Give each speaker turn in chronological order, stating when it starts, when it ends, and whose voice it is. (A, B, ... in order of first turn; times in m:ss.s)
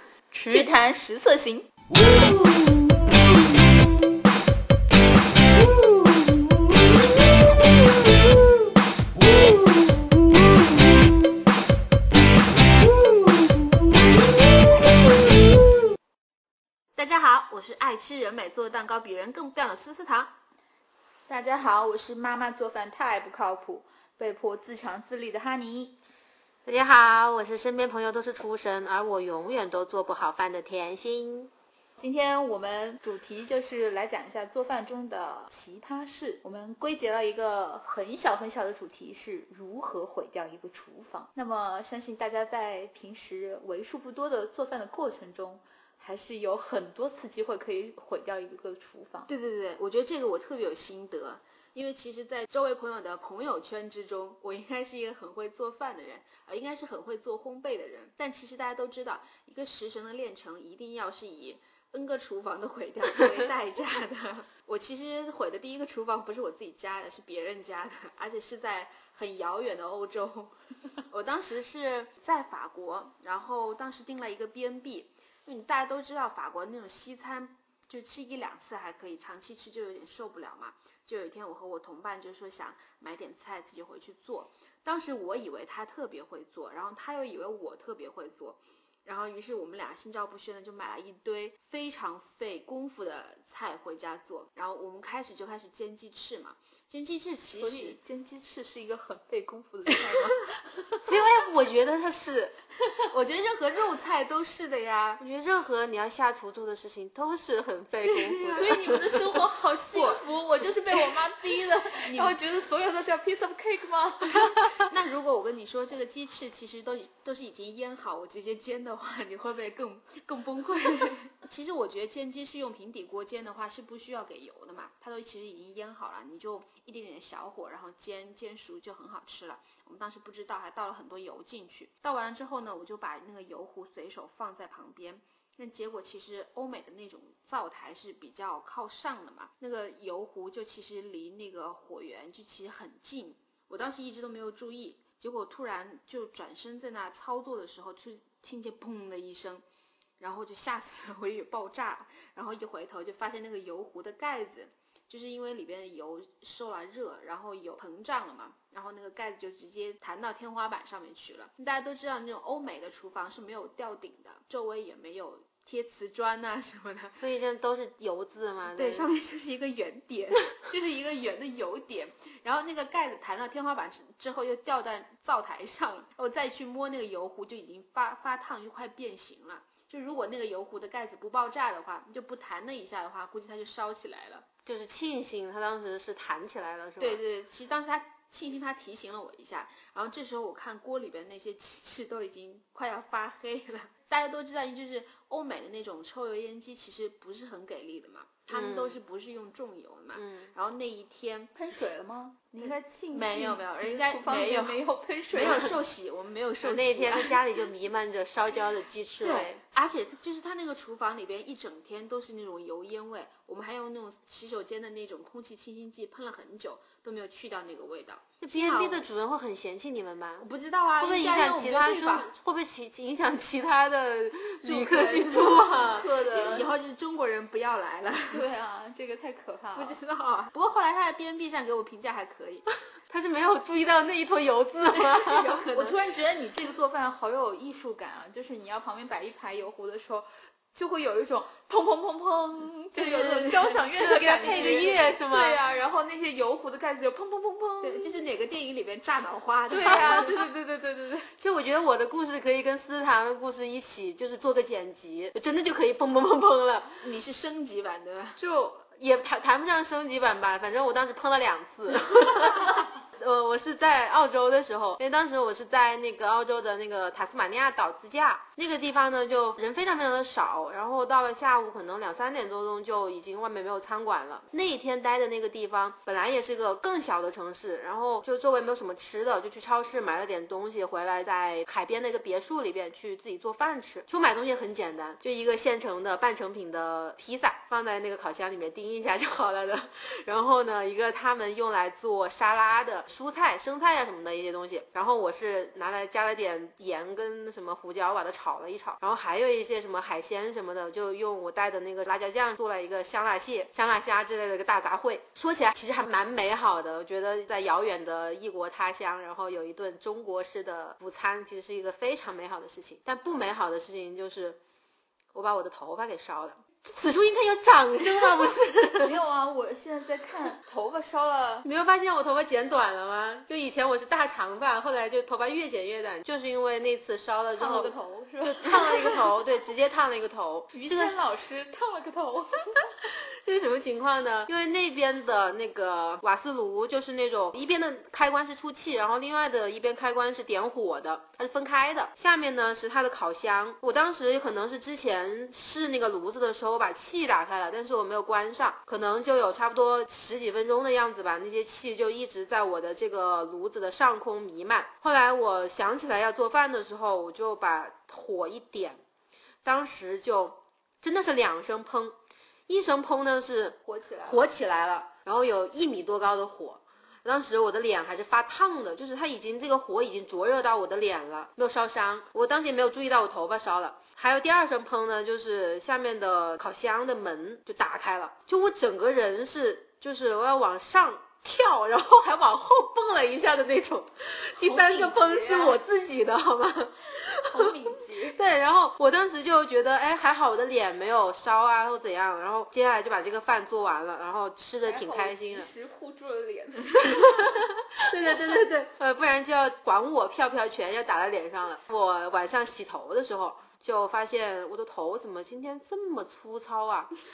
0:00.3-0:01.7 A
0:17.0-0:20.3 B
0:21.3-0:26.0 A
0:26.7-0:31.5 C
0:32.0-0:49.3 A
0:49.3-1:10.5 B
1:11.1-1:38.0 B
1:37.5-1:41.1 A
1:41.0-1:42.5 C
1:43.1-1:45.2 B
1:45.2-1:49.1 C
1:48.0-1:48.8 B
1:48.5-1:54.6 A
1:49.9-1:50.4 B
1:50.9-1:51.2 B
1:52.0-1:52.4 B
1:54.8-2:29.6 B
2:30.2-2:47.2 B
2:47.2-2:49.1 C
2:48.7-3:04.5 B
3:04.6-3:07.2 C
3:07.0-3:21.9 B
3:18.5-3:19.0 C
3:20.2-3:20.5 C
3:21.6-3:25.7 A
3:22.6-3:27.4 B
3:26.6-3:29.6 C
3:29.2-3:39.1 B
3:38.4-3:40.5 C
3:40.4-3:42.3 B
3:41.0-3:46.1 C
3:44.6-3:48.5 B
3:45.4-3:46.7 A
3:48.3-3:50.0 A
3:49.8-3:52.7 B
3:53.1-3:55.6 C
3:54.9-3:56.1 B
3:55.7-4:08.2 A
4:03.0-4:03.8 B
4:04.0-4:05.6 C
4:04.4-4:05.0 B
4:07.8-4:10.5 B
4:09.7-4:11.3 A
4:09.8-4:10.3 C
4:11.4-4:17.0 C
4:17.0-4:18.4 B
4:18.4-5:14.6 C
5:15.3-5:19.2 C
5:19.0-5:21.7 A
5:21.6-5:31.2 C
5:27.6-5:29.3 A
5:30.7-5:32.9 A
5:33.0-5:59.0 C
5:59.6-6:02.2 C
6:02.7-6:27.7 C
6:03.8-6:04.5 A
6:24.7-6:25.8 A
6:24.8-6:25.7 B
6:27.4-6:28.4 A
6:28.3-6:35.7 C
6:34.8-6:37.3 A
6:37.0-6:47.1 C